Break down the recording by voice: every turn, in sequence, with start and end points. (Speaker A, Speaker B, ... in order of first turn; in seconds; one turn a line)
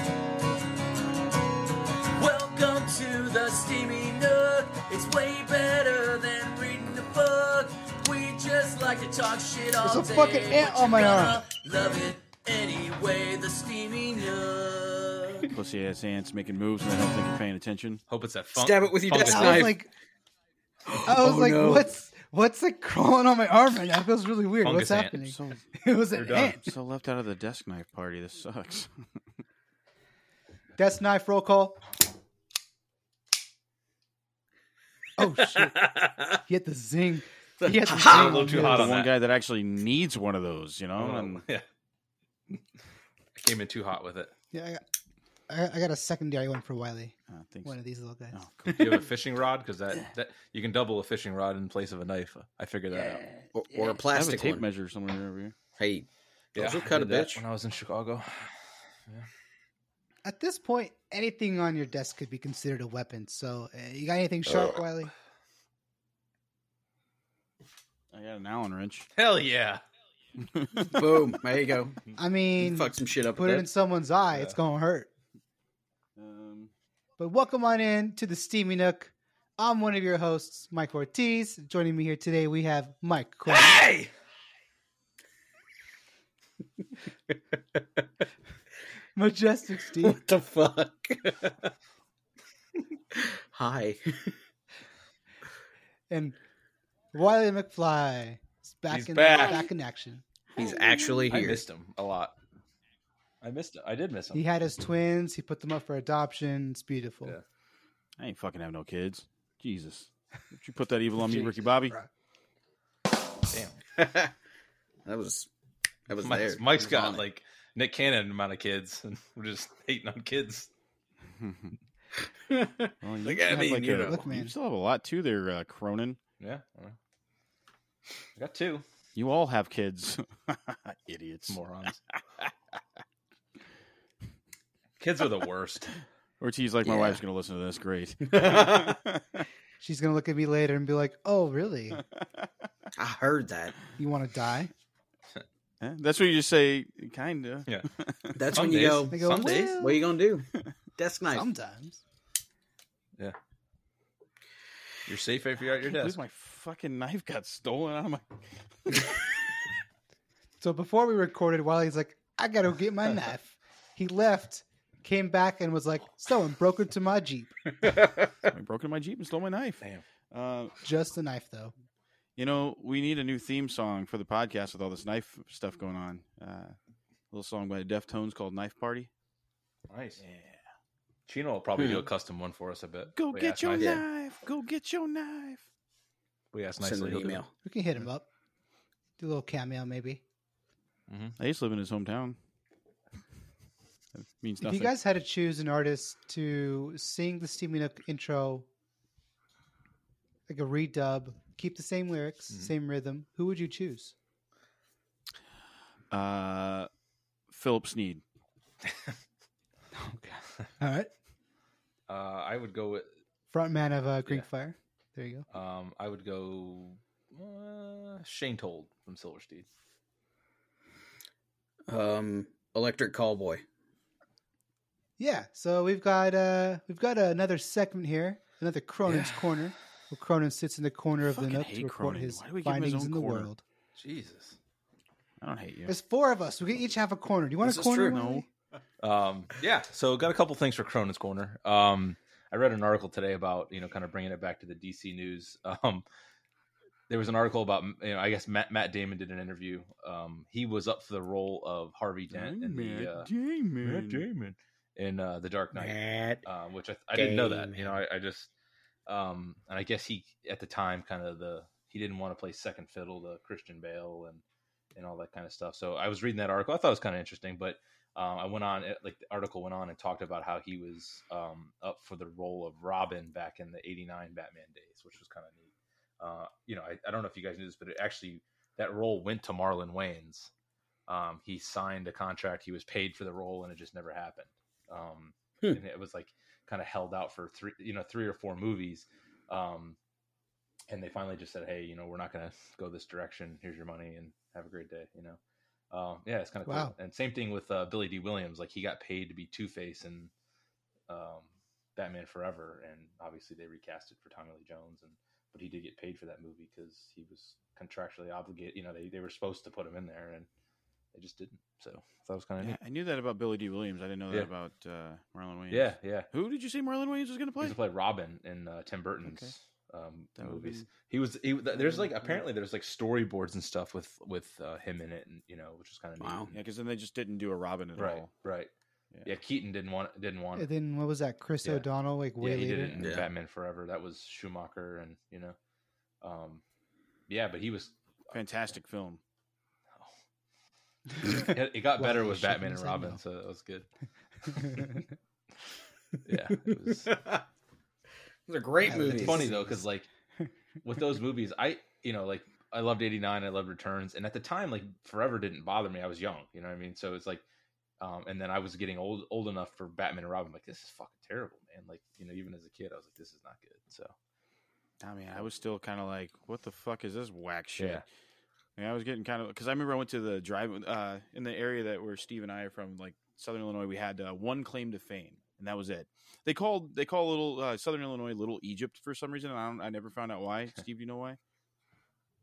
Speaker A: 2.1-15.5
Speaker B: 9.8-11.4
Speaker C: 15.5-18.0
Speaker D: 18.1-19.8
Speaker E: 18.6-19.8
Speaker B: 19.2-19.9
Speaker E: 20.9-21.9
Speaker B: 21.0-26.6
Speaker D: 24.6-25.2
Speaker C: 25.2-25.6
Speaker D: 26.1-26.6
Speaker C: 26.6-29.0
Speaker B: 30.8-31.8
Speaker B: 35.2-35.9
Speaker B: 36.5-39.0
Speaker E: 37.6-38.4
Speaker D: 38.0-39.1
Speaker C: 38.3-41.4
Speaker D: 41.0-41.7
Speaker D: 43.4-44.3
Speaker B: 44.5-44.8
Speaker B: 45.5-48.4
Speaker C: 47.3-47.8
Speaker C: 48.3-49.1
Speaker D: 48.7-53.2
Speaker A: 53.1-54.0
Speaker E: 53.5-54.6
Speaker C: 54.1-55.5
Speaker E: 55.8-57.4
Speaker D: 56.5-58.5
Speaker B: 60.2-65.1
Speaker C: 68.1-69.1
Speaker D: 69.2-69.8
Speaker C: 70.4-71.0
Speaker E: 70.8-72.0
Speaker B: 72.2-75.1
Speaker E: 72.6-73.7
Speaker C: 76.2-76.7
Speaker B: 77.2-83.8
Speaker D: 83.5-84.1
Speaker B: 89.2-90.2
Speaker E: 90.0-91.7
Speaker E: 93.1-94.4
Speaker B: 96.1-96.4
Speaker B: 97.1-100.2
Speaker D: 98.9-99.6
Speaker E: 100.6-101.6
Speaker D: 101.3-102.3
Speaker D: 103.4-104.4
Speaker B: 104.3-107.4
Speaker C: 108.2-112.0
Speaker D: 113.5-113.8
Speaker E: 114.0-114.3
Speaker E: 115.0-115.5
Speaker E: 116.1-117.2
Speaker D: 116.2-120.7
Speaker C: 121.4-121.8
Speaker E: 122.4-124.2
Speaker C: 123.0-126.2
Speaker B: 124.0-124.5
Speaker D: 126.4-127.0
Speaker D: 128.4-128.8
Speaker C: 129.2-131.6
Speaker D: 131.5-132.0
Speaker D: 135.0-136.0
Speaker C: 136.4-139.5
Speaker E: 136.8-137.2
Speaker E: 138.3-139.0
Speaker B: 139.8-142.0
Speaker C: 142.0-142.5
Speaker E: 143.0-143.8
Speaker B: 144.0-144.7
Speaker C: 145.8-148.4
Speaker E: 148.3-151.5
Speaker D: 148.5-149.8
Speaker B: 149.0-150.1
Speaker B: 151.3-152.0
Speaker D: 155.1-156.2
Speaker C: 155.9-159.2
Speaker B: 160.6-167.6
Speaker E: 167.9-168.2
Speaker C: 168.5-170.7
Speaker B: 170.8-171.7
Speaker C: 172.4-176.8
Speaker C: 177.3-179.1
Speaker D: 179.9-180.2
Speaker C: 180.2-180.6
Speaker D: 181.3-184.0
Speaker E: 181.8-182.1
Speaker C: 183.1-185.7
Speaker E: 183.8-184.1
Speaker D: 186.5-187.4
Speaker E: 186.8-187.5
Speaker B: 187.6-188.3
Speaker B: 189.2-190.2
Speaker D: 191.1-191.4
Speaker C: 191.4-192.4
Speaker C: 194.2-194.9
Speaker B: 194.6-198.7
Speaker B: 200.5-204.2
Speaker C: 206.1-206.9
Speaker C: 207.5-208.2
Speaker D: 208.9-209.2
Speaker B: 209.9-211.1
Speaker D: 212.1-213.1
Speaker B: 213.5-215.4
Speaker D: 215.5-219.7
Speaker E: 221.9-223.6
Speaker B: 225.2-233.6
Speaker D: 229.1-229.6
Speaker C: 231.3-233.5
Speaker D: 234.0-234.6
Speaker C: 235.4-235.9
Speaker B: 235.9-238.5
Speaker E: 237.6-238.2
Speaker C: 238.0-238.4
Speaker D: 239.0-246.1
Speaker D: 247.1-253.3
Speaker C: 252.3-254.2
Speaker D: 253.8-258.5
Speaker E: 255.7-256.4
Speaker E: 257.1-258.0
Speaker D: 259.1-264.4
Speaker D: 264.9-280.5
Speaker D: 281.1-290.0
Speaker D: 290.9-295.4
Speaker D: 295.9-300.3
Speaker B: 296.7-296.9
Speaker D: 301.1-310.5
Speaker D: 311.1-312.8
Speaker C: 312.6-317.8
Speaker D: 315.7-316.3
Speaker D: 317.6-326.6
Speaker C: 319.2-319.5
Speaker C: 320.4-320.9
Speaker C: 321.7-322.4
Speaker E: 326.2-326.5
Speaker C: 326.5-328.3
Speaker D: 328.0-328.7
Speaker D: 329.2-330.7
Speaker B: 330.6-333.1
Speaker D: 332.4-335.6
Speaker E: 333.0-333.3
Speaker D: 336.2-336.6
Speaker D: 337.3-338.3
Speaker C: 338.3-339.2
Speaker B: 341.2-343.2
Speaker D: 341.2-343.9
Speaker D: 344.5-344.9
Speaker B: 344.6-345.0
Speaker D: 346.3-347.1
Speaker E: 346.9-347.4
Speaker E: 348.5-349.5
Speaker B: 348.9-349.8
Speaker D: 349.1-350.1
Speaker D: 350.8-357.4
Speaker D: 358.0-364.1
Speaker C: 365.0-368.0
Speaker D: 367.8-368.0
Speaker C: 368.8-381.4